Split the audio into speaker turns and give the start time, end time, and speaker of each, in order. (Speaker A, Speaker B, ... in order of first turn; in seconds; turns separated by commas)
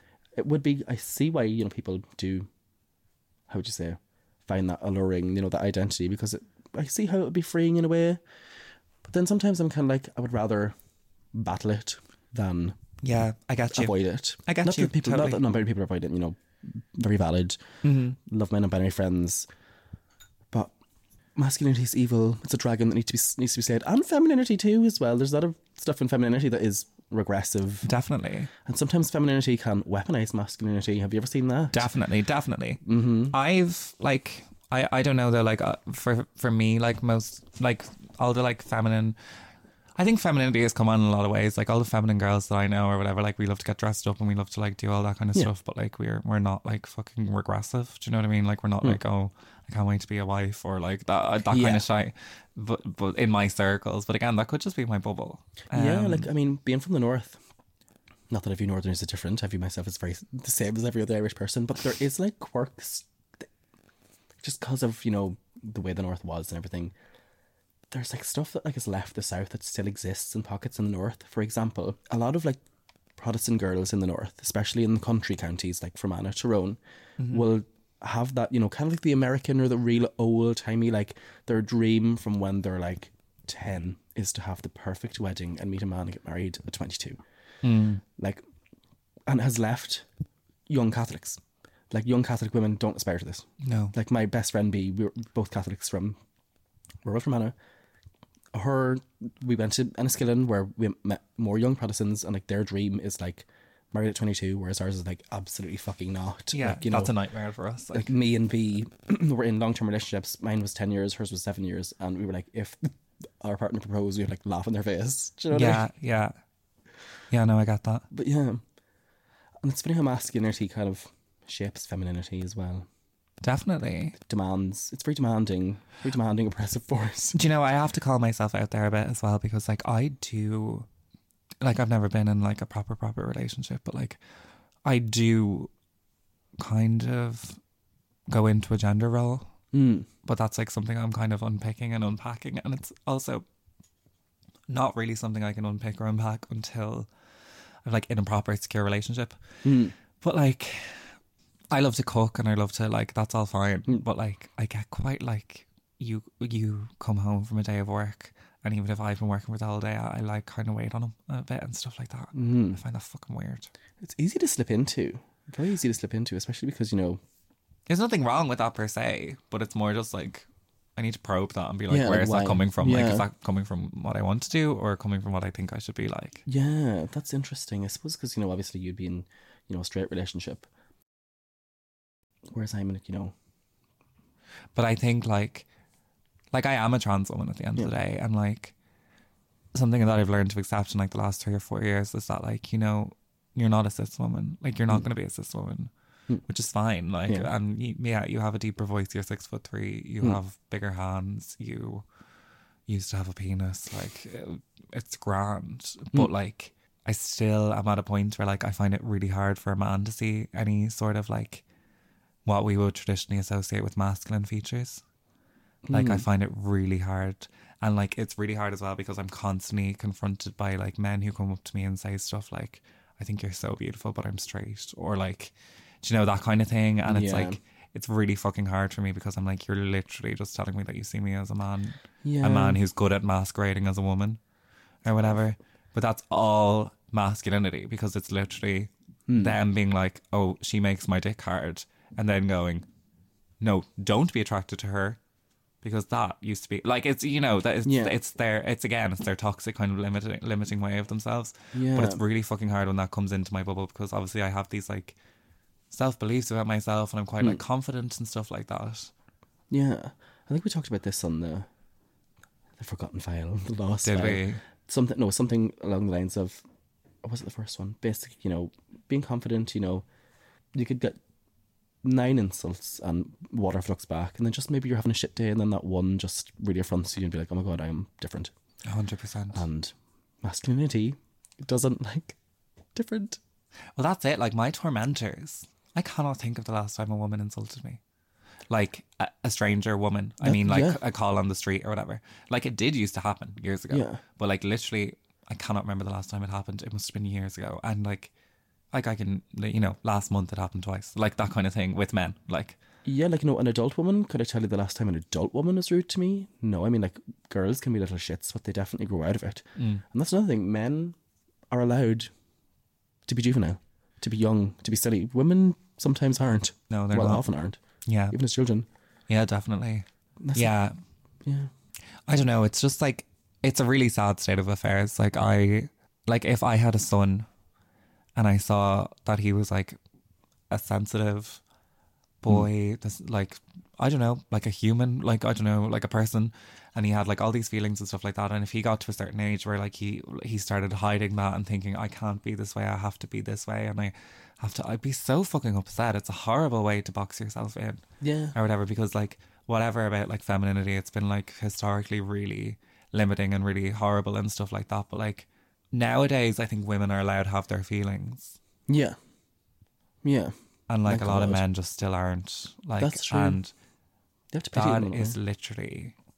Speaker A: 0.3-2.5, Speaker A: 3.5-8.2, Speaker A: 9.0-10.7, Speaker A: 11.3-12.8, Speaker B: 13.0-15.4, Speaker A: 13.7-17.6, Speaker B: 17.8-18.2, Speaker A: 18.2-19.4, Speaker A: 21.4-27.9, Speaker B: 27.8-28.5, Speaker A: 28.6-31.9, Speaker B: 31.7-39.2, Speaker A: 32.8-33.3, Speaker B: 40.0-56.3, Speaker A: 51.5-51.8, Speaker A: 55.7-57.4, Speaker A: 58.3-63.1, Speaker A: 64.4-66.9, Speaker A: 67.9-72.6, Speaker A: 73.2-76.8, Speaker B: 77.2-77.5, Speaker A: 77.3-87.2, Speaker B: 87.6-88.0, Speaker A: 88.2-88.4, Speaker A: 89.3-90.1, Speaker A: 90.7-96.2, Speaker B: 93.6-93.9, Speaker A: 97.0-97.5, Speaker A: 98.5-107.1, Speaker B: 106.5-108.1, Speaker A: 107.9-115.8, Speaker B: 115.5-116.3, Speaker B: 117.3-118.1, Speaker A: 118.1-118.6, Speaker A: 119.6-122.9, Speaker B: 123.4-124.2, Speaker A: 124.2-127.4, Speaker B: 127.3-130.9, Speaker B: 131.6-134.2, Speaker B: 134.8-135.7, Speaker B: 136.6-137.6, Speaker B: 138.3-139.5, Speaker A: 139.7-140.1, Speaker B: 140.2-143.4, Speaker B: 144.7-147.1, Speaker B: 147.8-149.4, Speaker A: 149.6-149.9, Speaker B: 150.2-151.1, Speaker B: 151.7-163.7, Speaker A: 162.3-162.8, Speaker A: 164.0-167.2, Speaker B: 167.9-176.4, Speaker A: 171.9-173.2, Speaker A: 176.4-180.7, Speaker A: 182.5-183.3, Speaker B: 184.7-185.7, Speaker B: 186.5-188.7, Speaker B: 189.7-195.9, Speaker B: 196.4-202.0, Speaker B: 202.9-211.6, Speaker B: 212.4-215.0, Speaker A: 215.8-216.2, Speaker B: 215.9-234.4, Speaker A: 227.1-227.6, Speaker A: 232.2-232.8, Speaker B: 235.0-242.9, Speaker A: 239.3-239.6, Speaker B: 243.6-245.2, Speaker B: 245.8-255.2, Speaker A: 247.8-248.2, Speaker A: 251.7-252.2, Speaker B: 255.9-259.1, Speaker A: 259.7-261.7, Speaker A: 262.8-266.6, Speaker B: 264.0-264.6, Speaker A: 267.2-270.0, Speaker A: 270.7-271.2, Speaker A: 272.0-278.5, Speaker B: 278.8-279.6, Speaker A: 279.5-282.4, Speaker A: 282.9-283.4, Speaker B: 283.9-288.0, Speaker B: 288.7-298.3, Speaker A: 290.4-291.0, Speaker A: 293.9-294.2, Speaker B: 298.9-302.8, Speaker A: 303.0-311.1, Speaker B: 309.8-310.0, Speaker A: 311.7-312.3, Speaker A: 313.3-317.8, Speaker B: 316.9-317.4, Speaker B: 318.1-318.4, Speaker A: 318.3-318.9, Speaker B: 319.3-320.9, Speaker A: 320.4-320.7, Speaker A: 321.4-321.7, Speaker B: 322.3-327.5, Speaker B: 328.4-330.0, Speaker B: 330.7-331.6, Speaker B: 332.4-348.0, Speaker A: 348.2-348.6, Speaker B: 348.5-358.6, Speaker A: 358.9-359.2, Speaker A: 360.2-360.5, Speaker B: 360.9-363.7, Speaker A: 361.1-361.6, Speaker A: 363.0-363.6, Speaker A: 364.5-365.4, Speaker B: 364.7-366.1